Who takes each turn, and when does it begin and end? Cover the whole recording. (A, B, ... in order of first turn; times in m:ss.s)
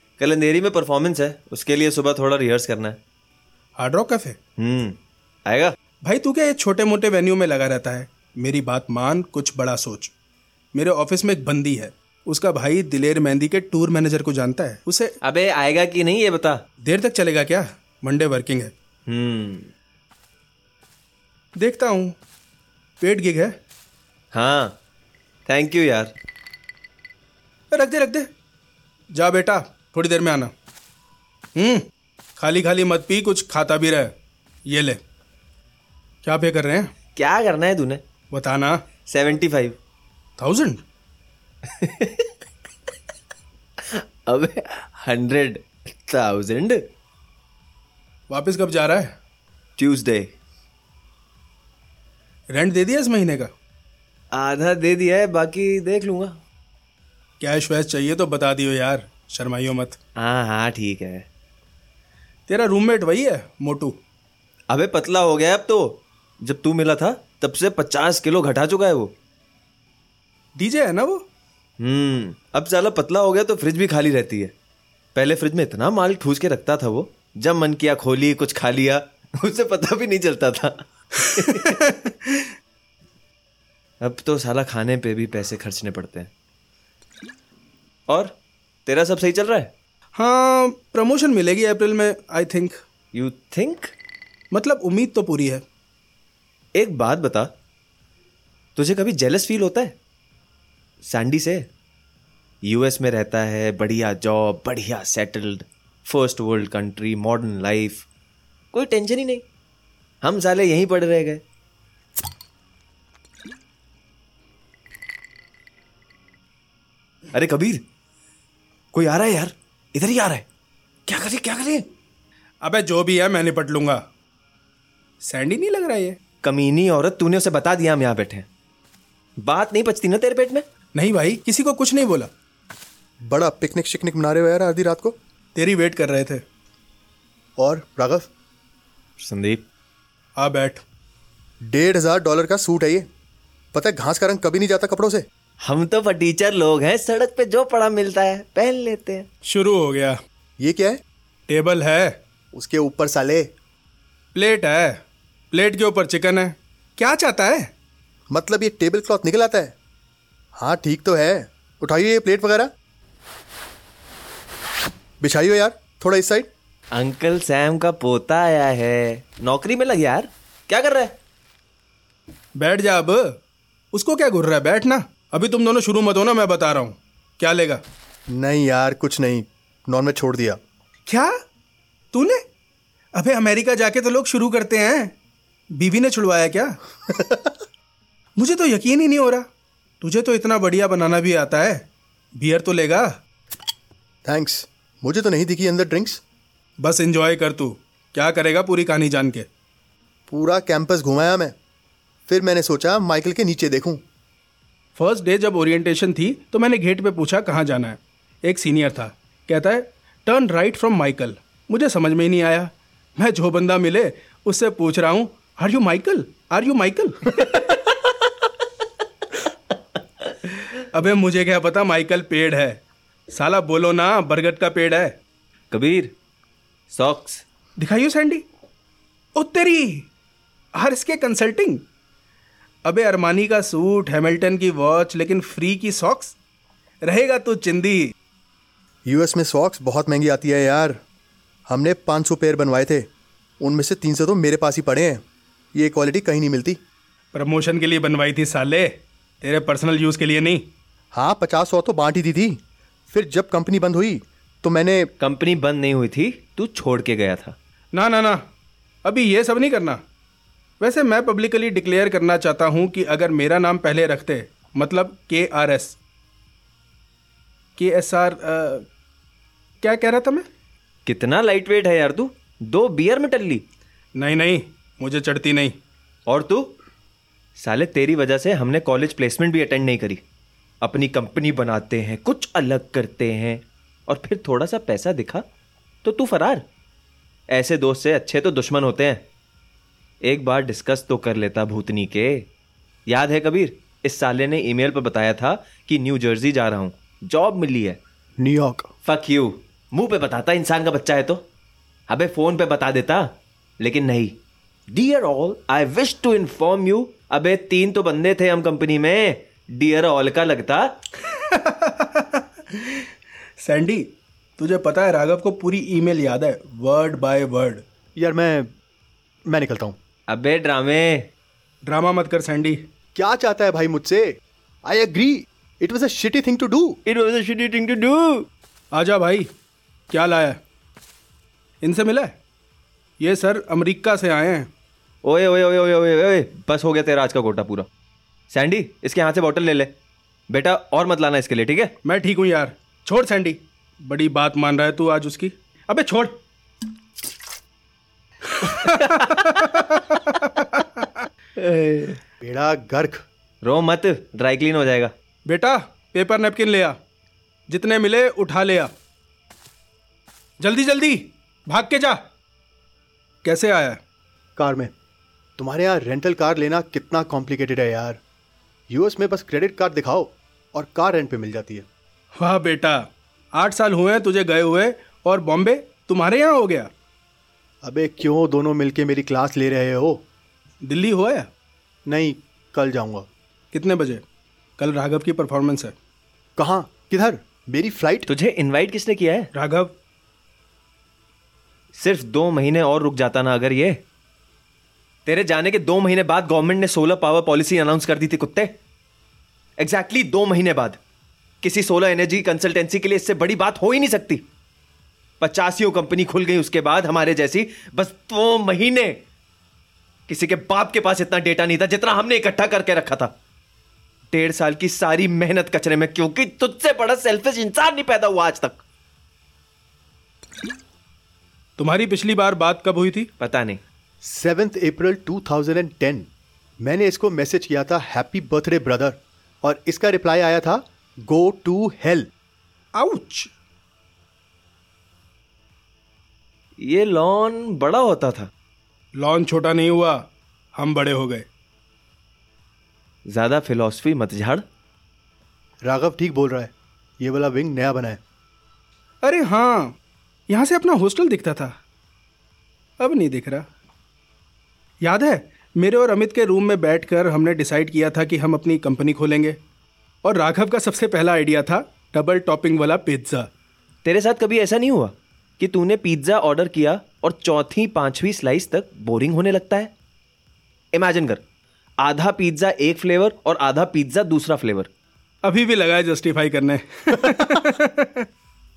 0:00.2-0:03.0 A
0:03.8-0:04.4 B
0:04.6-0:05.7 A
0:06.0-0:10.1 B
0:10.7-0:15.1 B
0:15.2-0:16.6 A
0:16.8-0:18.7 B
0:19.1-0:19.7 A
0:21.6-0:22.1 B
0:23.0-0:23.5 B
0:24.3-0:24.8 A
0:25.5-0:26.1 A
0:27.7-0:28.3 B
0:29.1-0:30.5 B
0:31.6-0:31.8 B
0:32.4-0:34.1 B
0:34.7-0:35.0 B
0:36.2-0:36.9 B
0:37.2-0:38.0 A
0:38.3-0:38.8 B
0:39.0-0:39.8 A
0:40.4-0:40.8 B
0:41.6-0:42.3 A
0:43.9-0:46.9 A
0:48.3-0:49.1 B
0:49.8-0:50.3 A
0:52.5-0:53.5 B
0:54.3-0:56.4 A
0:57.4-1:00.0 B
1:00.2-1:01.3 A
1:02.5-1:04.0 B
1:04.7-1:09.1 A
1:10.6-1:11.2 B
1:11.8-1:14.5 A
1:15.1-1:21.8 A
1:21.5-1:22.5 B
1:24.0-1:26.3 A
1:28.1-1:28.3 A
1:28.8-1:29.7 A
1:30.2-1:32.8 B
1:33.1-1:33.9 A
1:34.5-1:35.6 B
1:36.7-1:37.5 A
1:38.8-1:40.0 A
1:41.0-1:41.7 A
1:42.6-1:48.0 A
1:48.7-1:49.4 A
1:50.2-1:51.4 A
1:57.3-1:57.8 A
1:58.9-2:00.4 A
2:01.1-2:01.9 A
2:02.6-2:04.0 B
2:05.2-2:06.2 B
2:06.4-2:08.5 A
2:09.4-2:10.6 A
2:10.9-2:12.3 B
2:13.3-2:15.2 C
2:15.5-2:16.4 B
2:17.6-2:18.3 C
2:19.2-2:19.6 A
2:20.4-2:20.8 B
2:21.6-2:23.1 C
2:23.7-2:25.2 C
2:25.6-2:29.3 A
2:29.4-2:30.2 B
2:30.6-2:31.0 C
2:31.5-2:32.2 B
2:32.5-2:33.5 C
2:34.3-2:35.0 B
2:35.5-2:37.7 B
2:38.3-2:39.7 C
2:40.5-2:42.7 C
2:45.2-2:46.5 C
2:46.9-2:51.1 A
2:52.6-2:53.4 B
2:53.9-2:57.8 B
2:58.3-3:00.6 C
3:01.1-3:01.3 B
3:02.1-3:02.4 B
3:03.1-3:05.1 B
3:05.7-3:06.8 B
3:07.0-3:07.6 C
3:08.4-3:09.4 B
3:10.0-3:11.8 B
3:12.4-3:13.1 B
3:14.2-3:16.2 C
3:16.8-3:19.4 B
3:20.3-3:21.5 C
3:22.3-3:24.0 C
3:25.0-3:37.4 B
3:40.9-3:45.1 B
3:45.7-3:46.1 A
3:46.9-3:47.4 A
3:47.8-3:48.4 B
3:49.4-3:50.1 B
3:50.8-3:51.8 B
3:52.8-3:56.3 B
3:57.0-3:58.1 B
3:59.0-4:01.0 C
4:01.7-4:03.1 C
4:03.6-4:05.2 C
4:05.7-4:06.8 C
4:07.3-4:08.9 B
4:09.4-4:10.6 B
4:11.1-4:12.6 C
4:13.1-4:15.1 C
4:15.2-4:17.6 A
4:17.9-4:18.4 B
4:19.0-4:20.0 B
4:20.8-4:26.0 B
4:27.8-4:28.8 B
4:29.8-4:30.4 B
4:31.0-4:33.6 A
4:34.2-4:35.7 B
4:36.3-4:36.8 A
4:37.6-4:40.2 A
4:40.8-4:45.4 A
4:46.0-4:46.6 A
4:47.5-4:49.2 A
4:50.2-4:52.5 A
4:53.1-4:58.0 A
4:58.4-4:58.9 C
4:59.0-5:01.4 A
5:02.1-5:04.3 A
5:04.9-5:10.9 A
5:11.3-5:13.1 B
5:13.6-5:17.8 B
5:18.2-5:18.7 C
5:19.5-5:20.0 C
5:20.3-5:21.3 A
5:21.8-5:22.8 B
5:23.1-5:27.0 C
5:27.0-5:28.5 A
5:28.9-5:29.5 B
5:30.1-5:30.6 B
5:31.8-5:32.3 B
5:33.2-5:34.7 B
5:35.2-5:37.9 A
5:38.5-5:39.9 A
5:40.5-5:41.9 A
5:42.0-5:46.4 B
5:48.5-5:51.2 B
5:48.8-5:49.4 A
5:51.6-5:52.2 A
5:52.4-5:53.2 C
5:53.6-5:55.1 A
5:55.4-5:57.0 B
5:57.7-5:58.9 B
6:00.6-6:02.2 B
6:03.4-6:04.0 B
6:04.6-6:04.9 C
6:05.6-6:08.2 C
6:08.9-6:11.8 C
6:12.4-6:16.9 B
6:17.8-6:20.2 C
6:20.8-6:21.5 B
6:22.0-6:23.3 C
6:23.7-6:24.2 B
6:24.8-6:25.9 B
6:26.6-6:28.3 C
6:28.3-6:29.5 A
6:29.5-6:29.9 B
6:31.9-6:34.0 A
6:35.2-6:38.7 A
6:39.8-6:41.0 A
6:41.6-6:44.4 A
6:45.4-6:49.2 A
6:50.3-6:53.3 A
6:54.3-6:58.8 A
7:01.8-7:03.3 B
7:03.4-7:03.8 A
7:04.2-7:06.3 C
7:06.8-7:12.3 C
7:12.9-7:13.5 B
7:16.8-7:18.5 A
7:19.2-7:20.2 B
7:20.8-7:21.4 B
7:23.3-7:24.6 A
7:25.8-7:28.2 C
7:29.2-7:30.0 B
7:30.5-7:31.7 B
7:33.0-7:33.6 B
7:35.0-7:39.6 B
7:40.2-7:43.5 B
7:44.0-7:49.9 A
7:50.9-7:51.4 A
7:52.0-7:54.9 A
7:55.4-7:58.2 B
7:57.1-7:57.6 C